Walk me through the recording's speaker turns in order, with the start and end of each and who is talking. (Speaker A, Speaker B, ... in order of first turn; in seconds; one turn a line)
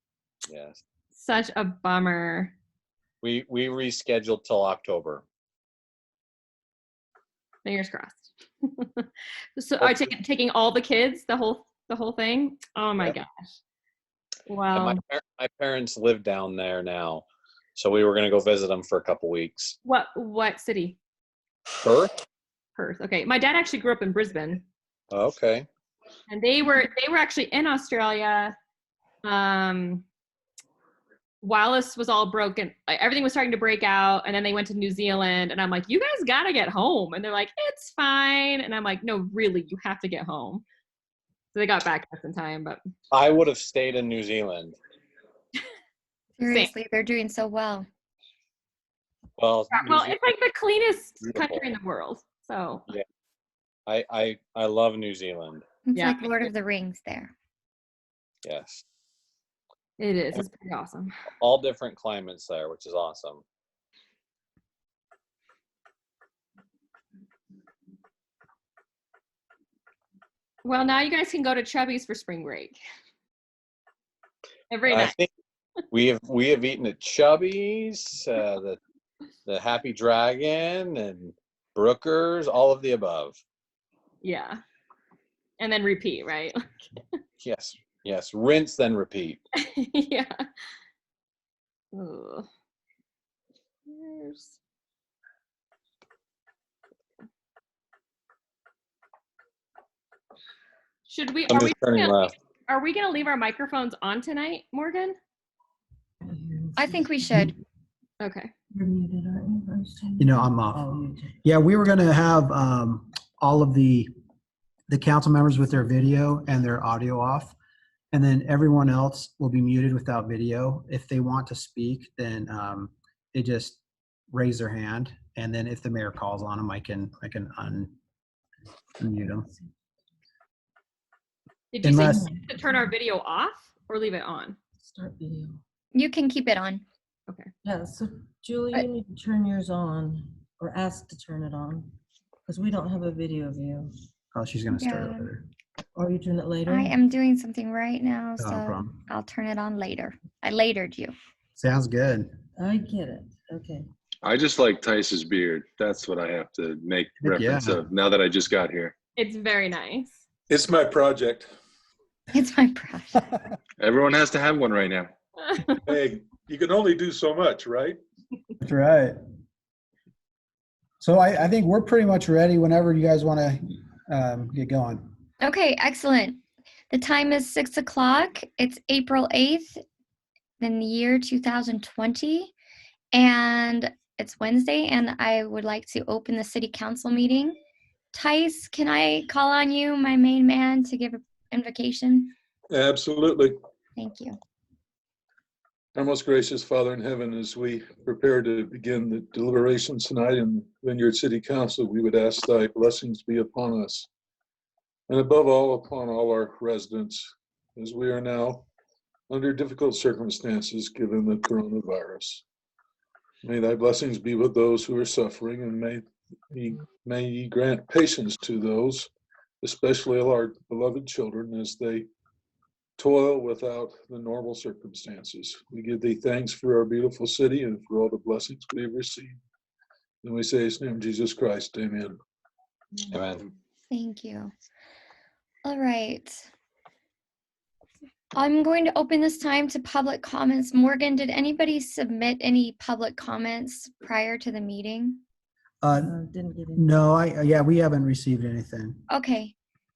Speaker A: 0.5-0.8
Speaker B: 1.1-2.5
Speaker A: 3.2-5.2
Speaker B: 7.7-13.5
Speaker A: 9.8-10.1
Speaker B: 14.5-15.0
Speaker A: 14.8-19.8
Speaker B: 19.8-21.0
Speaker A: 21.8-22.1
Speaker B: 22.8-24.6
Speaker A: 25.1-25.7
Speaker B: 26.3-28.5
Speaker B: 29.2-30.0
Speaker B: 31.4-40.6
Speaker B: 41.5-42.8
Speaker A: 43.1-44.8
Speaker C: 46.4-47.9
Speaker A: 49.4-50.3
Speaker B: 49.7-52.9
Speaker A: 51.2-51.6
Speaker A: 53.9-55.6
Speaker C: 55.9-57.3
Speaker B: 56.0-56.5
Speaker A: 58.4-58.8
Speaker B: 60.0-61.1
Speaker A: 61.4-63.4
Speaker B: 70.6-72.8
Speaker B: 74.7-75.2
Speaker A: 74.9-75.3
Speaker A: 75.9-78.8
Speaker A: 79.5-83.4
Speaker B: 84.2-84.6
Speaker B: 85.6-86.9
Speaker A: 87.4-89.4
Speaker B: 89.6-90.4
Speaker B: 91.9-92.5
Speaker B: 93.9-94.5
Speaker B: 101.1-105.2
Speaker A: 101.5-102.3
Speaker D: 106.2-107.6
Speaker C: 106.8-107.5
Speaker B: 108.2-108.5
Speaker D: 108.7-111.3
Speaker E: 110.2-114.1
Speaker E: 114.9-117.5
Speaker E: 118.1-123.8
Speaker E: 124.3-127.9
Speaker E: 129.0-129.5
Speaker B: 131.7-134.6
Speaker E: 131.8-132.2
Speaker D: 132.1-132.8
Speaker D: 134.8-135.6
Speaker C: 135.9-136.8
Speaker D: 137.6-141.9
Speaker D: 142.5-143.9
Speaker E: 144.3-145.5
Speaker C: 144.7-145.3
Speaker D: 146.0-146.9
Speaker C: 146.7-151.1
Speaker E: 148.4-149.0
Speaker E: 151.6-152.3
Speaker D: 152.6-153.9
Speaker F: 154.2-158.9
Speaker E: 157.2-157.8
Speaker B: 159.2-160.2
Speaker G: 160.5-161.5
Speaker C: 162.3-163.3
Speaker F: 163.8-165.1
Speaker G: 165.7-168.0
Speaker E: 168.6-169.2
Speaker E: 171.0-175.1
Speaker C: 175.4-179.8
Speaker C: 180.6-182.5
Speaker C: 183.1-187.6
Speaker C: 188.1-192.3
Speaker G: 192.7-193.5
Speaker C: 194.0-194.4
Speaker G: 196.0-204.1
Speaker G: 205.1-208.7
Speaker G: 209.3-212.4
Speaker G: 213.4-219.1
Speaker G: 219.6-222.1
Speaker G: 223.0-229.4
Speaker G: 230.2-232.2
Speaker A: 233.1-233.5
Speaker C: 233.9-234.5
Speaker C: 235.7-236.5
Speaker C: 238.3-245.2
Speaker E: 245.8-246.2
Speaker D: 245.9-246.9
Speaker E: 246.8-249.0
Speaker C: 249.1-249.5